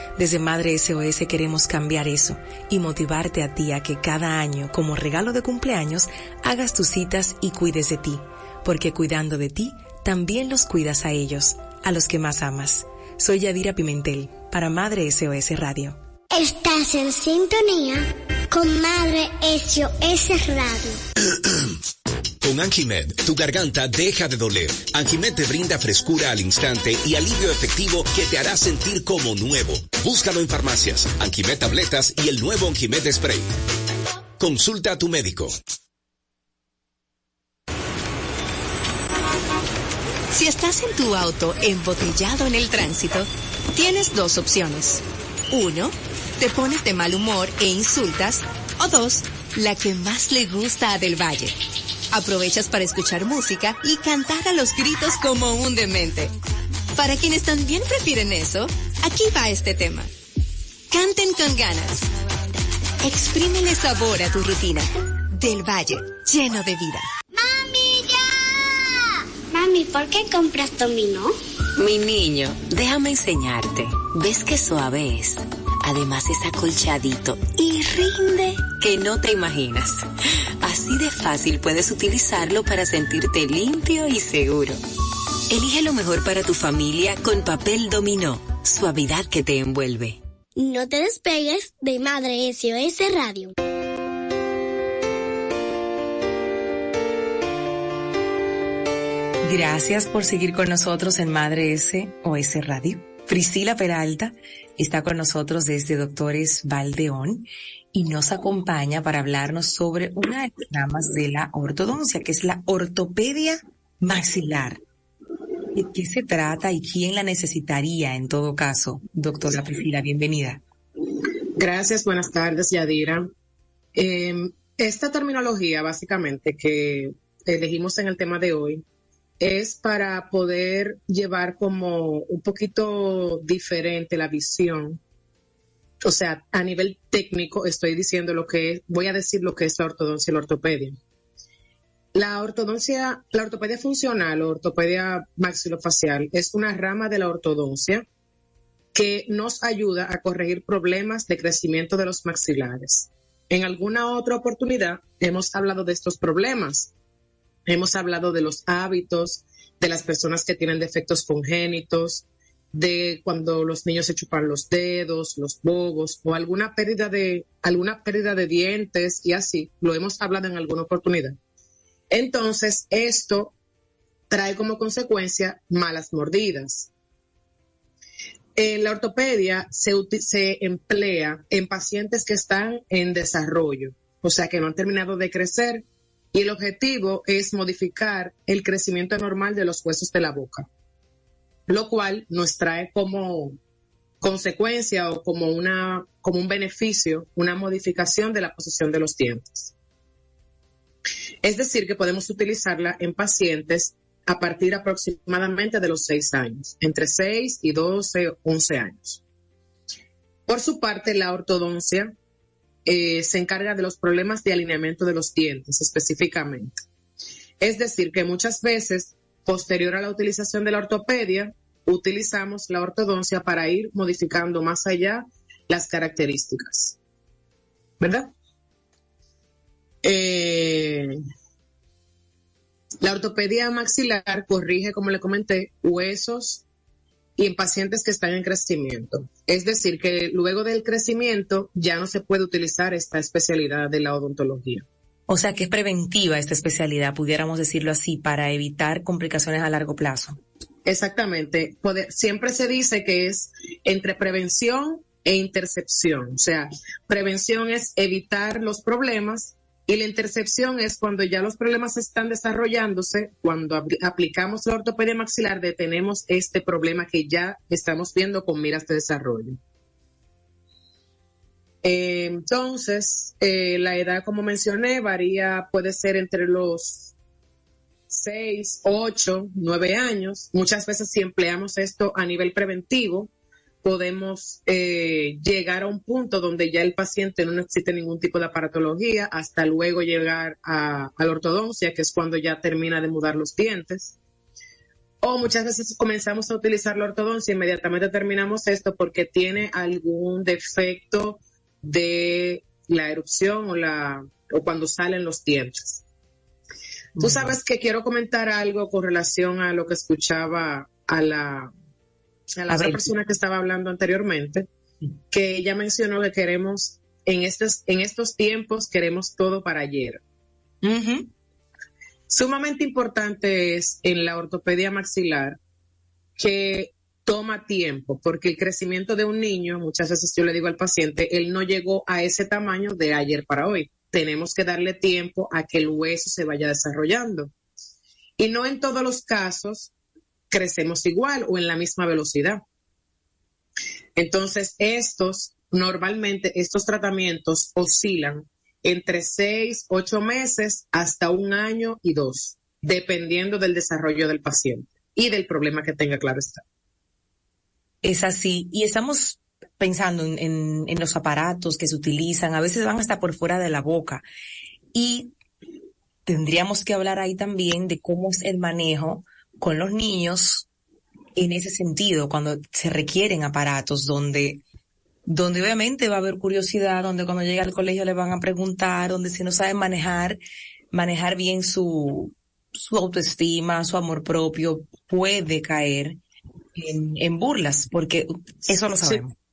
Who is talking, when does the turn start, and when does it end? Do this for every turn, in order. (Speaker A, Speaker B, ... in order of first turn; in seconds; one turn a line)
Speaker A: 0.1-16.0
Speaker B: 16.3-21.0
Speaker C: 22.4-33.5
Speaker C: 34.4-35.6
Speaker D: 40.3-51.5
Speaker D: 52.1-56.3
Speaker D: 56.9-60.1
Speaker D: 60.9-62.1
Speaker D: 63.0-67.1
Speaker B: 67.3-68.9
Speaker B: 69.5-71.3
Speaker E: 71.8-80.1
Speaker E: 80.6-84.8
Speaker E: 85.5-90.2
Speaker B: 90.6-93.5
Speaker A: 99.4-114.8
Speaker A: 115.7-120.6
Speaker F: 121.6-123.3
Speaker F: 123.9-128.8
Speaker F: 129.4-135.0
Speaker F: 136.0-141.0
Speaker F: 142.1-148.1
Speaker F: 148.9-156.9
Speaker F: 157.7-171.4
Speaker F: 172.1-173.5
Speaker F: 174.3-176.9
Speaker F: 178.6-190.7
Speaker F: 191.7-193.6
Speaker F: 194.2-199.7
Speaker F: 201.4-209.2
Speaker F: 210.5-212.1
Speaker F: 212.8-216.7
Speaker F: 217.6-226.9
Speaker F: 228.0-228.3
Speaker F: 230.0-231.2
Speaker F: 233.0-236.6
Speaker F: 237.4-244.8
Speaker A: 245.3-250.4
Speaker F: 250.8-269.6
Speaker F: 271.8-277.1
Speaker F: 278.1-283.3
Speaker F: 283.8-294.2
Speaker F: 295.2-306.0
Speaker A: 307.2-307.6
Speaker F: 307.2-311.7
Speaker F: 312.5-314.7
Speaker A: 312.7-313.1
Speaker F: 315.3-320.2
Speaker A: 320.8-321.3
Speaker F: 322.3-325.6
Speaker F: 326.4-337.5
Speaker F: 338.4-339.9
Speaker F: 340.5-342.6
Speaker F: 344.2-356.6
Speaker A: 358.0-364.2
Speaker A: 364.9-365.3
Speaker A: 366.3-370.7
Speaker A: 371.4-374.6
Speaker A: 375.3-380.4
Speaker A: 380.9-386.2
Speaker A: 386.7-389.3